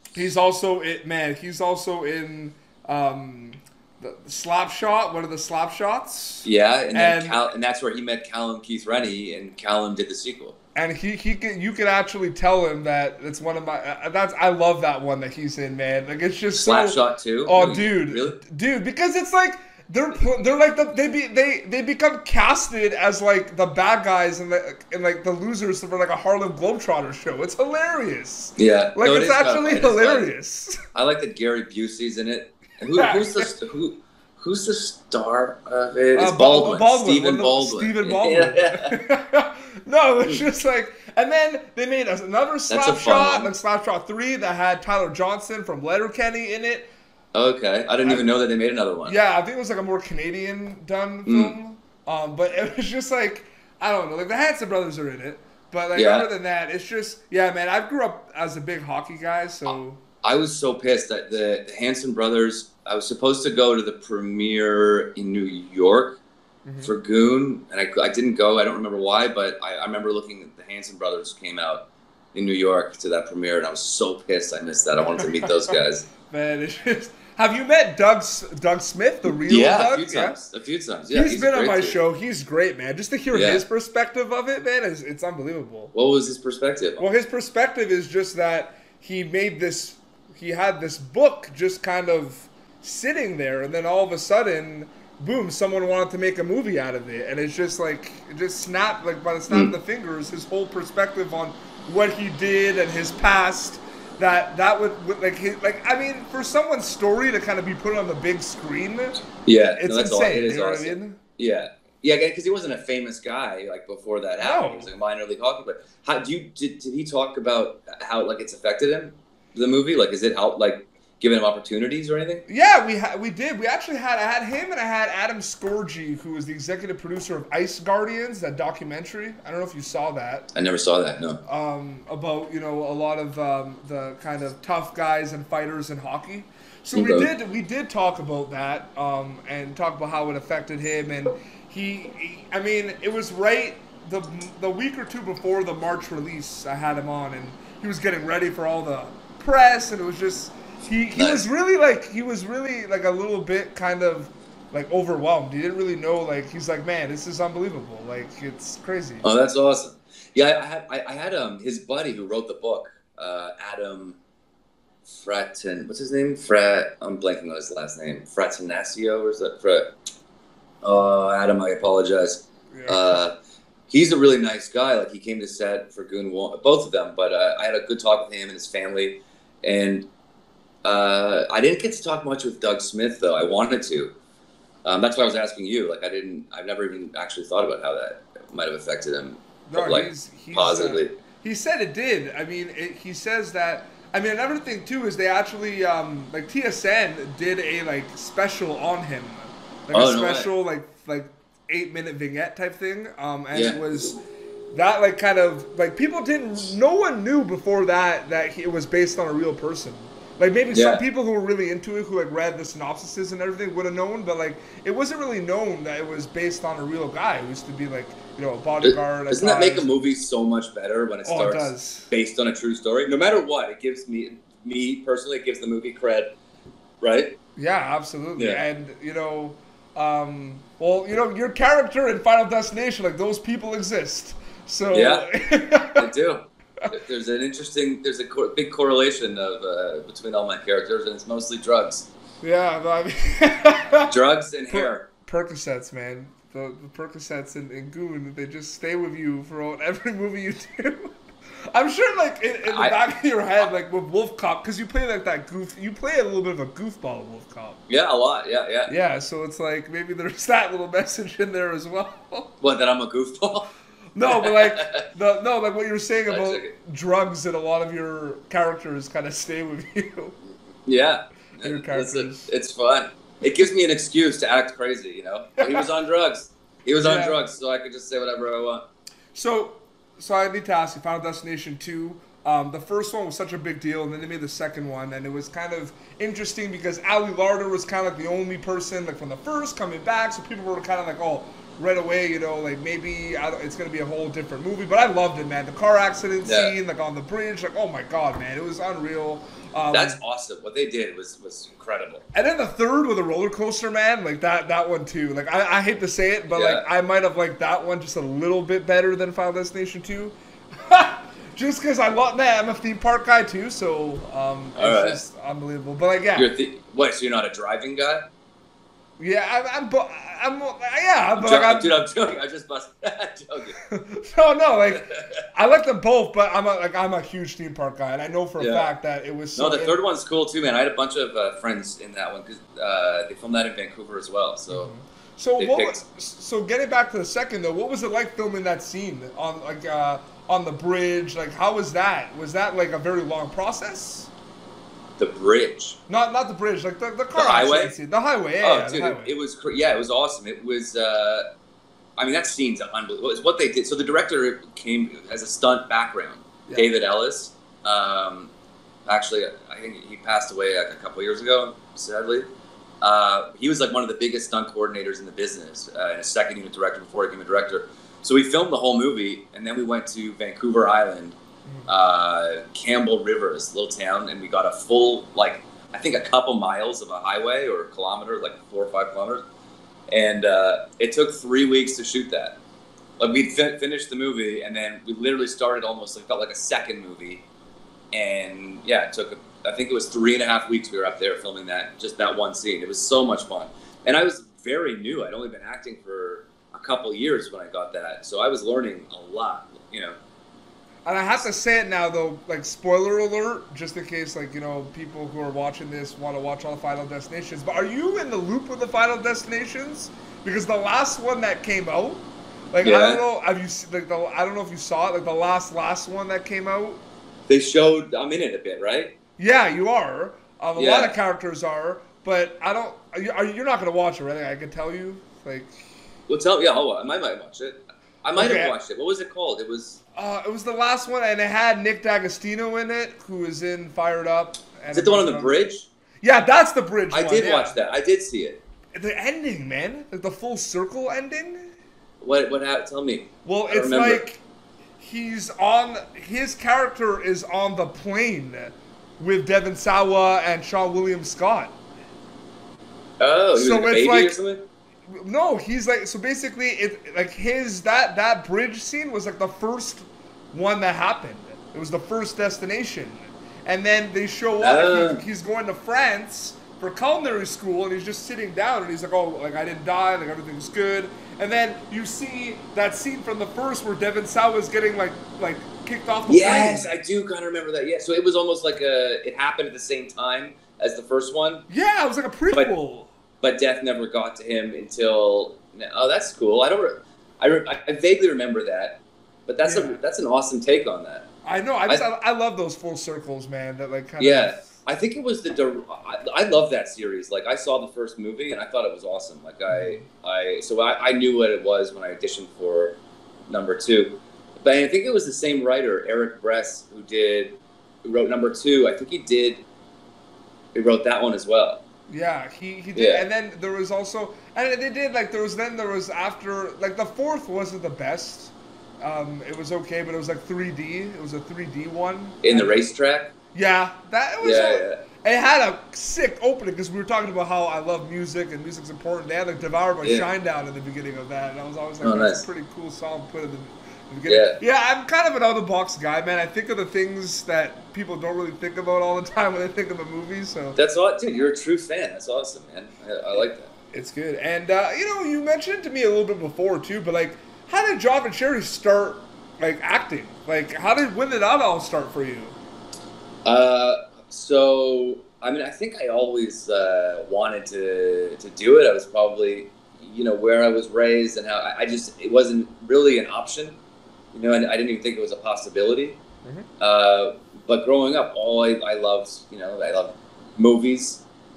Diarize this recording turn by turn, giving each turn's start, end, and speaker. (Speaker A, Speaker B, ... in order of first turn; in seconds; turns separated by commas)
Speaker A: 0.1-7.4, Speaker B: 6.4-10.6, Speaker A: 10.8-30.8, Speaker B: 16.5-18.4, Speaker B: 28.6-30.3, Speaker B: 30.9-39.0, Speaker A: 32.9-33.5, Speaker A: 36.1-46.9, Speaker B: 42.7-43.5, Speaker B: 47.3-49.1, Speaker A: 49.1-60.0, Speaker B: 51.2-51.5, Speaker B: 56.0-56.3, Speaker B: 60.2-66.1, Speaker A: 66.7-66.9, Speaker B: 66.8-71.8, Speaker B: 72.3-76.0, Speaker A: 75.2-75.7, Speaker A: 76.2-80.4, Speaker B: 79.5-82.0, Speaker A: 81.1-85.9, Speaker B: 83.3-83.6, Speaker B: 85.9-87.0, Speaker A: 87.0-109.2, Speaker B: 99.5-99.7, Speaker B: 109.5-122.4, Speaker A: 109.8-111.2, Speaker A: 114.4-114.9, Speaker A: 122.5-130.5, Speaker B: 130.5-131.4, Speaker A: 131.4-159.3, Speaker B: 136.9-137.3, Speaker B: 151.1-151.4, Speaker B: 159.2-164.2, Speaker B: 165.1-169.9, Speaker B: 170.8-173.3, Speaker A: 172.7-173.2, Speaker B: 173.9-180.1, Speaker B: 180.8-184.1, Speaker B: 184.8-191.1, Speaker A: 189.7-204.2, Speaker B: 199.9-200.5, Speaker B: 203.5-203.9, Speaker A: 204.7-220.1, Speaker B: 210.7-211.0, Speaker B: 218.8-226.3, Speaker A: 221.2-222.1, Speaker B: 227.0-227.3, Speaker A: 227.6-236.1, Speaker B: 228.4-228.6, Speaker B: 234.9-235.3, Speaker B: 236.0-242.1, Speaker A: 242.4-244.1, Speaker B: 244.1-245.1, Speaker A: 244.7-251.1, Speaker A: 251.7-257.8, Speaker B: 252.6-253.0, Speaker B: 257.9-258.9, Speaker A: 258.9-262.5, Speaker B: 262.6-263.7, Speaker A: 264.1-270.4, Speaker B: 264.2-265.1, Speaker B: 266.3-266.7, Speaker B: 270.9-278.8, Speaker A: 271.6-272.5, Speaker A: 275.6-275.9, Speaker A: 277.0-277.4, Speaker A: 279.4-300.2, Speaker B: 296.4-296.7, Speaker B: 299.9-302.2, Speaker A: 302.3-316.5, Speaker B: 306.5-306.9, Speaker B: 314.8-315.2, Speaker B: 316.4-318.2, Speaker A: 319.2-321.9, Speaker B: 321.4-323.8, Speaker A: 323.9-330.0, Speaker B: 324.9-325.2, Speaker B: 328.6-328.9, Speaker B: 329.6-334.9, Speaker A: 334.7-344.3, Speaker B: 335.6-336.0, Speaker B: 345.2-346.0, Speaker A: 346.1-349.3, Speaker B: 347.3-348.0, Speaker B: 348.6-351.4, Speaker B: 352.2-358.5, Speaker B: 359.1-362.5, Speaker B: 363.0-371.4, Speaker B: 371.9-379.4, Speaker B: 380.1-382.5, Speaker B: 383.2-387.4, Speaker B: 388.1-400.2, Speaker A: 401.1-417.0, Speaker B: 412.8-413.2, Speaker B: 417.5-419.1, Speaker A: 419.4-425.9, Speaker B: 420.8-421.1, Speaker B: 426.3-430.0, Speaker A: 428.4-428.7, Speaker A: 430.1-435.6, Speaker B: 434.9-435.9, Speaker A: 436.2-437.8, Speaker B: 437.1-438.6, Speaker A: 438.9-441.7, Speaker B: 442.2-444.2, Speaker A: 443.4-444.4, Speaker A: 445.0-451.8, Speaker B: 453.2-454.6, Speaker A: 453.5-454.4, Speaker A: 455.1-476.9, Speaker B: 464.6-465.2, Speaker B: 476.3-481.6, Speaker A: 481.7-483.1, Speaker B: 483.4-491.2, Speaker A: 489.6-490.0, Speaker A: 491.4-494.7, Speaker B: 494.2-502.9, Speaker A: 499.7-500.1, Speaker B: 503.5-509.6, Speaker B: 510.7-511.8, Speaker A: 512.1-522.9, Speaker B: 513.0-513.2, Speaker B: 522.4-523.3, Speaker A: 523.5-540.8, Speaker B: 524.4-525.0, Speaker B: 530.0-530.3, Speaker B: 532.0-532.5, Speaker B: 534.3-534.6, Speaker B: 540.8-543.7, Speaker A: 543.9-552.6, Speaker B: 553.5-563.8, Speaker B: 564.3-566.2, Speaker A: 566.4-566.7, Speaker B: 566.8-571.2